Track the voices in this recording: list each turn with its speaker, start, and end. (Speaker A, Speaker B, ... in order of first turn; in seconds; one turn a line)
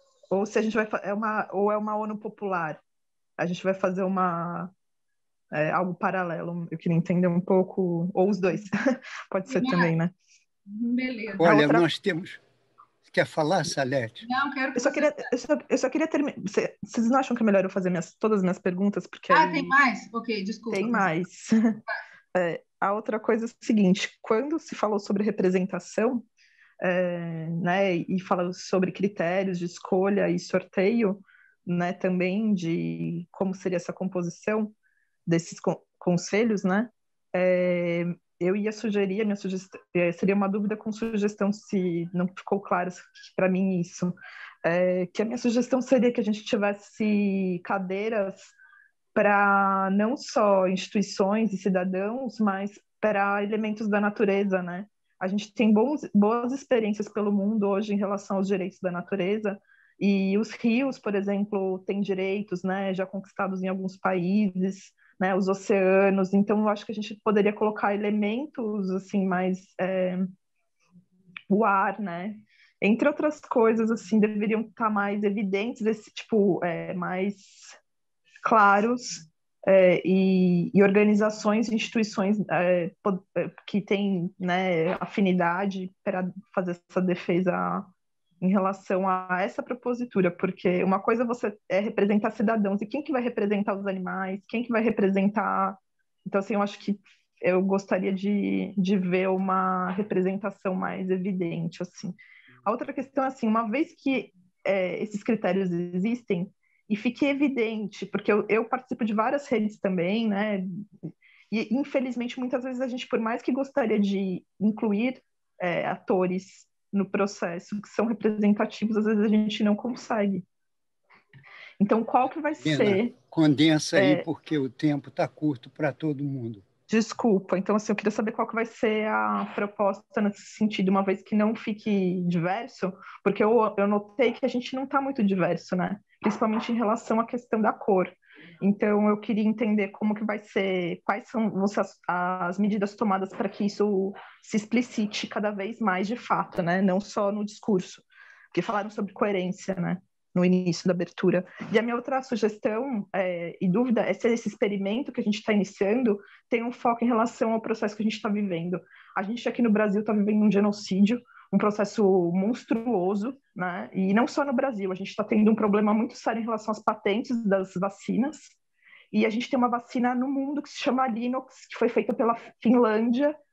Speaker A: 0.3-2.8
Speaker A: 3.4-4.7
Speaker A: 5.5-10.1
Speaker B: 9.5-10.0
Speaker B: 10.7-11.5
Speaker C: 11.4-12.4
Speaker A: 11.4-11.8
Speaker C: 13.0-14.2
Speaker B: 14.2-15.3
Speaker A: 14.8-19.7
Speaker B: 19.3-21.1
Speaker A: 20.7-21.8
Speaker A: 22.3-26.2
Speaker A: 26.8-34.7
Speaker A: 35.2-48.5
Speaker A: 49.1-70.3
Speaker A: 71.5-77.8
Speaker A: 78.4-87.9
Speaker A: 88.4-110.8
Speaker A: 111.5-120.4
Speaker A: 121.8-123.2
Speaker C: 122.6-126.6
Speaker A: 123.9-124.2
Speaker A: 126.9-168.5
Speaker A: 169.1-173.3